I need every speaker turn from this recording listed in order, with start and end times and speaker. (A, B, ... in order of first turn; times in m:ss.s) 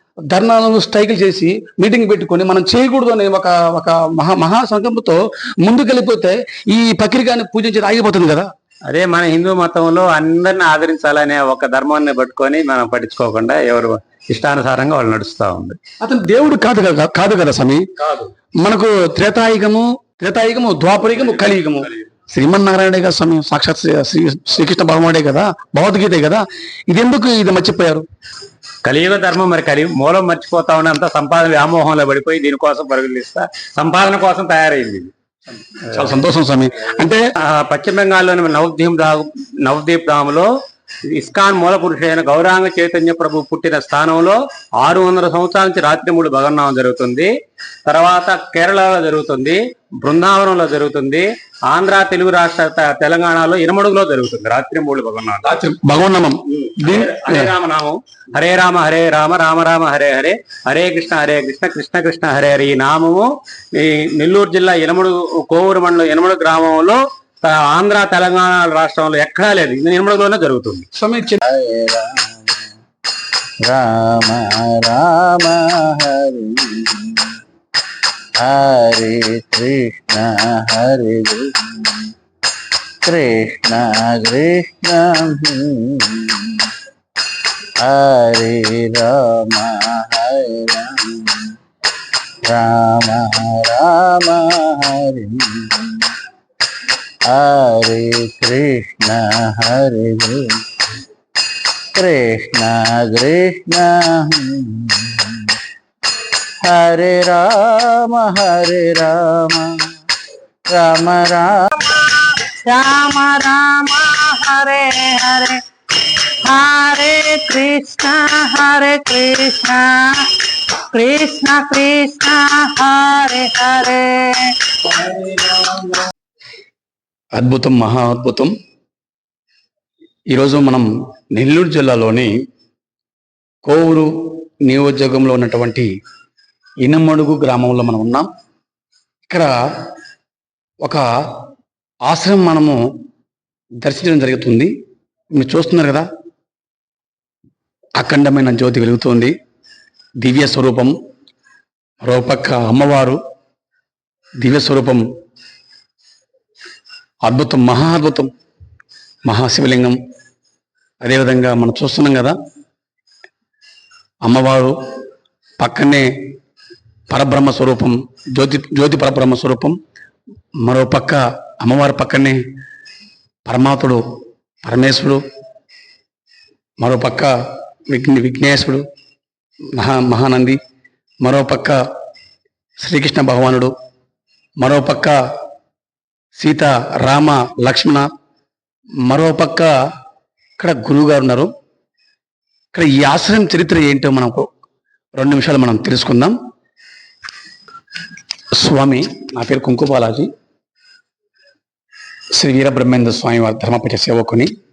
0:00.3-0:08.5 A
0:08.9-0:15.8 B
0:16.0-0:17.8 A
0:18.0-0:18.3 B
0:18.6-0:28.0 A
0:28.8-0:35.1 B
0:35.8-0:37.2 A
0:37.4-0:40.5 B
0:41.1-0:47.3 B
0:47.8-0:55.4 B
0:55.4-0:57.5 A
0:56.5-1:10.8 B
1:10.9-1:11.4 A
1:11.5-1:12.5 C
1:13.6-1:17.4 C
1:18.4-1:22.1 C
1:23.0-1:26.7 C
1:27.8-1:31.6 C
1:32.4-1:36.1 C
1:37.3-1:40.6 C
1:41.9-1:45.6 C
1:46.6-1:49.9 C
1:50.7-1:51.7 C
1:51.7-2:00.3 D
2:00.9-2:06.0 D
2:07.4-2:08.5 A
2:10.3-2:12.3 A
2:13.6-2:14.1 A
2:14.6-2:15.9 A
2:16.8-2:18.3 A
2:22.1-2:22.8 A
2:23.8-2:24.7 A
2:25.3-2:26.1 A
2:28.0-2:29.3 A
2:30.2-2:30.9 A
2:32.0-2:33.2 A
2:34.4-2:35.0 A
2:37.2-2:38.3 A
2:39.2-2:40.0 A
2:41.0-2:42.4 A
2:44.2-2:44.8 A
2:45.6-2:46.1 A
2:47.1-2:49.8 A
2:50.6-2:52.4 A
2:53.4-2:54.0 A
2:54.6-2:55.2 A
2:56.8-2:57.3 A
2:57.9-2:58.8 A
2:59.7-3:00.6 A
3:01.2-3:01.8 A
3:02.8-3:03.7 A
3:04.6-3:05.2 A
3:06.4-3:08.1 A
3:09.0-3:09.7 A
3:10.6-3:11.5 A
3:12.7-3:14.5 A
3:15.1-3:16.3 A
3:18.6-3:20.3 A
3:22.4-3:24.5 A